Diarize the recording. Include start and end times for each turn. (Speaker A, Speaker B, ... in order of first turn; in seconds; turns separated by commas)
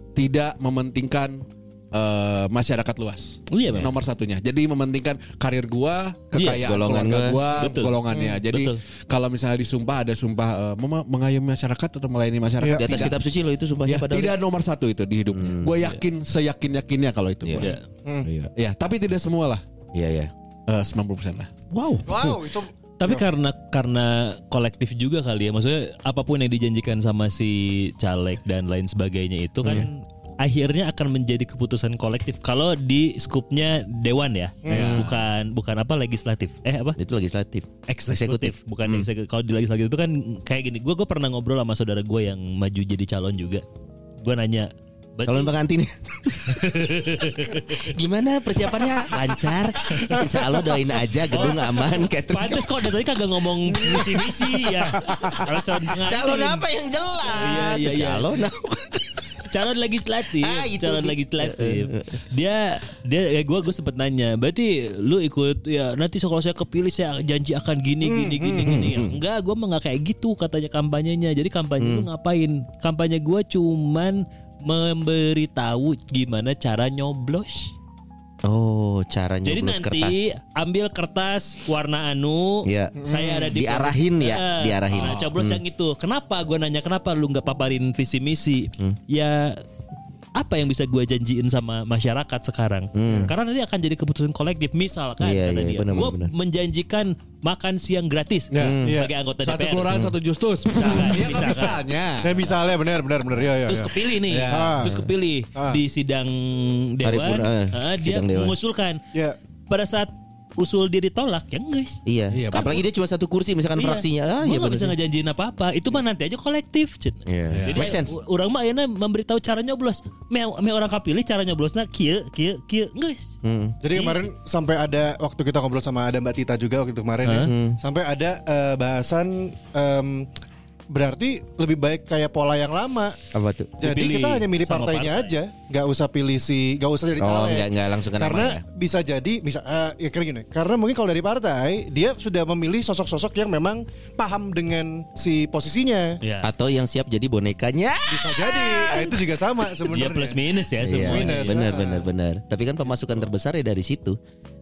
Speaker A: 0.1-13.2, Speaker B: 3.5-3.9, Speaker B: 6.3-6.6, Speaker C: 6.6-7.4, Speaker B: 7.6-8.8, Speaker D: 12.6-12.9, Speaker C: 12.7-14.3, Speaker A: 13.8-19.6, Speaker C: 15.3-15.9, Speaker C: 17.4-17.7, Speaker B: 17.6-17.8, Speaker C: 19.9-20.3, Speaker A: 20.7-21.6, Speaker C: 21.7-22.3, Speaker D: 22.1-23.2, Speaker B: 23.0-37.0, Speaker D: 34.6-35.0, Speaker C: 34.7-35.1, Speaker A: 34.7-35.1, Speaker C: 37.0-39.1, Speaker B: 37.9-43.6, Speaker B: 44.2-45.5, Speaker C: 45.2-52.8, Speaker B: 46.4-47.9, Speaker B: 51.3-56.6, Speaker C: 55.9-59.2, Speaker B: 57.4-58.3, Speaker B: 59.5-77.7, Speaker C: 60.3-62.2, Speaker D: 68.0-68.8, Speaker C: 68.6-69.2, Speaker C: 71.8-72.1, Speaker C: 78.4-80.2, Speaker B: 79.4-89.6, Speaker C: 82.6-83.0, Speaker D: 83.0-83.5, Speaker C: 83.5-85.6, Speaker A: 84.9-85.3, Speaker B: 90.3-100.0, Speaker C: 92.9-93.3, Speaker C: 95.2-96.3, Speaker A: 98.5-98.8, Speaker C: 98.5-98.9, Speaker D: 98.8-99.1, Speaker A: 99.4-102.5, Speaker C: 99.9-100.1, Speaker B: 100.7-101.8, Speaker D: 102.2-104.9, Speaker B: 103.7-109.0, Speaker A: 104.3-104.8, Speaker C: 107.0-108.5, Speaker D: 109.1-109.4, Speaker B: 109.7-112.0, Speaker C: 112.0-115.0, Speaker A: 112.3-112.8, Speaker B: 113.8-123.3, Speaker C: 117.2-118.1, Speaker A: 117.5-117.9, Speaker C: 123.4-123.8, Speaker D: 123.8-130.3, Speaker B: 123.9-124.2, Speaker B: 127.2-127.5, Speaker C: 127.4-127.8, Speaker D: 130.9-133.2, Speaker C: 133.3-133.8, Speaker D: 133.8-146.2, Speaker B: 133.8-135.3, Speaker C: 137.2-138.6, Speaker B: 146.2-146.5, Speaker C: 146.4-149.3, Speaker D: 148.1-152.1, Speaker B: 149.8-151.7, Speaker C: 150.8-154.2